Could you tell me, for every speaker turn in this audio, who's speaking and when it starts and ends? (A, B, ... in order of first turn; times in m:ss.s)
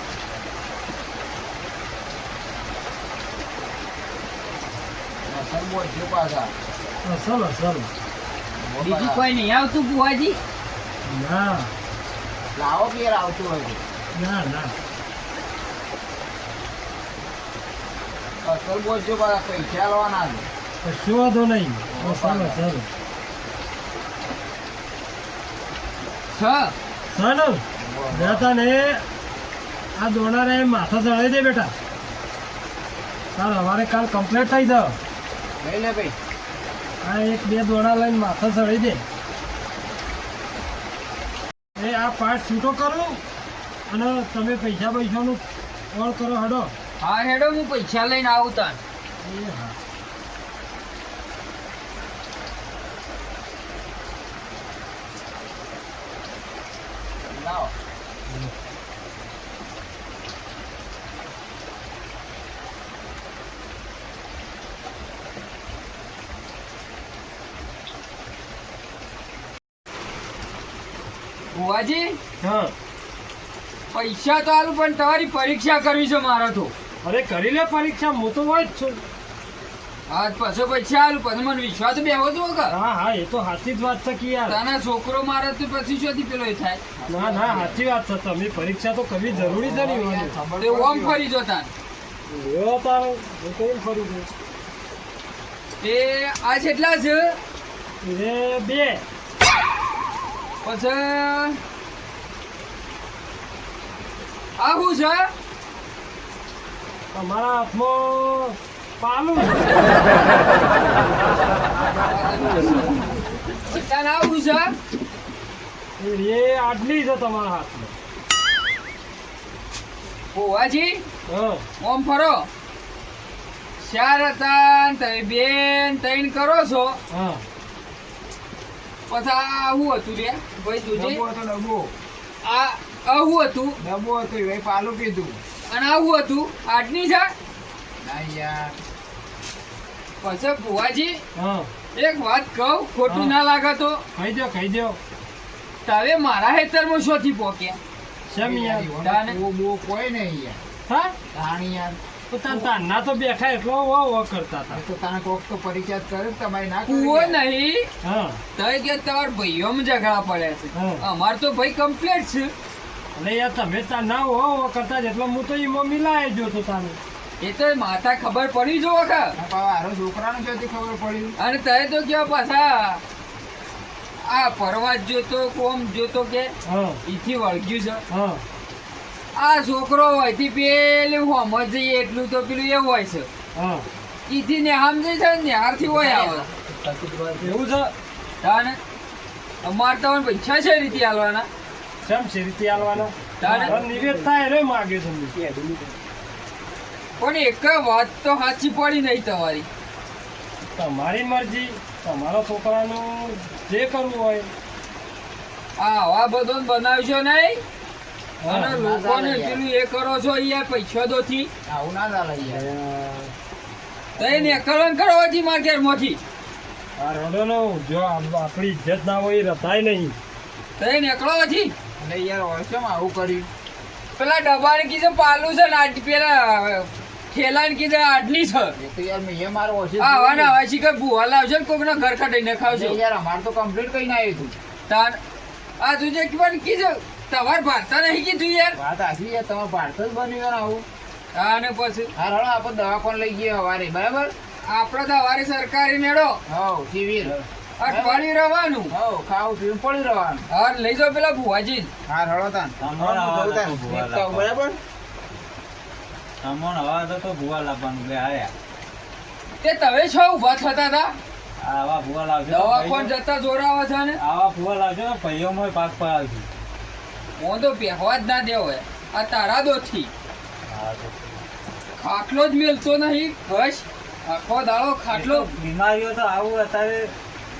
0:05.3-0:06.5 A
0:07.0-0:07.9 B
0:08.6-0:09.2 A
0:08.8-0:10.4 C
0:11.0-0:11.7 B
0:12.6-0:13.8 A
0:14.1-0:14.7 B
0:18.4-0:20.5 A
0:20.8-0:22.9 B
0:21.9-0:22.7 A
0:26.3-0:26.7 C
0:27.1-0:29.0 B
0:27.8-0:28.5 A
0:30.0-0:31.7 B
0:33.4-0:35.0 B
0:35.6-0:36.2 A
0:37.0-0:39.0 B
0:41.8-0:43.2 B
0:43.9-0:46.7 B
0:47.0-0:48.8 C
0:49.2-0:49.8 B
0:57.3-0:57.7 A
1:11.5-1:12.2 C
1:12.4-1:12.7 B
1:13.9-1:16.7 C
1:17.0-1:19.0 B
1:20.1-1:22.7 C
1:22.7-1:24.6 B
1:24.4-1:26.8 C
1:27.0-1:27.8 A
1:27.1-1:30.4 B
1:29.2-1:31.2 A
1:30.6-1:31.7 C
1:32.3-1:34.3 B
1:35.8-1:37.4 C
1:38.0-1:39.0 B
1:40.6-1:41.6 C
1:44.6-1:45.3 C
1:47.1-1:50.0 B
1:52.0-1:53.0 C
1:53.7-1:54.8 C
1:56.0-1:57.9 B
2:00.3-2:01.0 C
2:01.3-2:01.6 B
2:01.8-2:02.5 C
2:03.8-2:07.0 C
2:07.1-2:07.4 B
2:09.1-2:11.2 C
2:10.9-2:11.9 A
2:12.4-2:13.8 C
2:13.8-2:15.4 A
2:15.7-2:17.3 C
2:18.0-2:18.8 A
2:20.2-2:21.2 C
2:21.4-2:21.7 B
2:21.9-2:24.0 C
2:23.1-2:23.3 B
2:24.2-2:25.0 B
2:25.8-2:27.8 C
2:28.3-2:28.9 B
2:28.3-2:30.6 A
2:29.0-2:29.4 C
2:30.9-2:31.2 B
2:31.3-2:32.0 A
2:32.3-2:34.8 B
2:34.7-2:37.4 A
2:36.8-2:37.9 C
2:38.0-2:38.4 B
2:38.6-2:42.5 C
2:40.7-2:41.0 B
2:43.2-2:47.0 B
2:47.4-2:49.3 C
2:49.4-2:51.3 A
2:51.4-2:53.0 C
2:54.2-2:56.5 C
2:56.6-2:57.0 B
2:57.0-2:58.0 C
2:58.1-2:58.4 B
2:59.3-3:03.3 C
3:03.6-3:03.9 B
3:04.3-3:07.2 C
3:07.4-3:07.9 B
3:08.4-3:08.8 C
3:09.6-3:11.5 C
3:12.0-3:15.3 B
3:13.4-3:13.8 C
3:13.5-3:14.1 D
3:17.2-3:19.7 C
3:20.7-3:24.5 B
3:25.8-3:27.6 C
3:28.4-3:28.7 B
3:28.4-3:31.5 C
3:28.7-3:29.6 A
3:31.6-3:32.7 A
3:32.5-3:33.3 B
3:34.2-3:36.2 C
3:37.0-3:40.2 B
3:40.8-3:41.7 C
3:42.0-3:43.5 A
3:44.2-3:48.7 C
3:48.8-3:50.5 A
3:50.0-3:53.0 C
3:52.6-3:54.5 A
3:54.9-3:55.2 C
3:55.8-3:58.8 C
3:58.8-4:00.8 A
4:01.3-4:02.1 C
4:02.2-4:04.3 A
4:04.6-4:06.4 C
4:06.5-4:08.3 A
4:07.8-4:08.9 C
4:08.9-4:10.4 A
4:10.5-4:11.9 C
4:12.1-4:14.8 A
4:12.8-4:14.5 D
4:16.4-4:18.5 D
4:19.6-4:21.2 C
4:21.6-4:23.1 D
4:22.5-4:24.2 C
4:24.2-4:26.5 D
4:27.4-4:30.1 C
4:30.7-4:31.4 D
4:32.0-4:35.5 C
4:35.1-4:37.1 D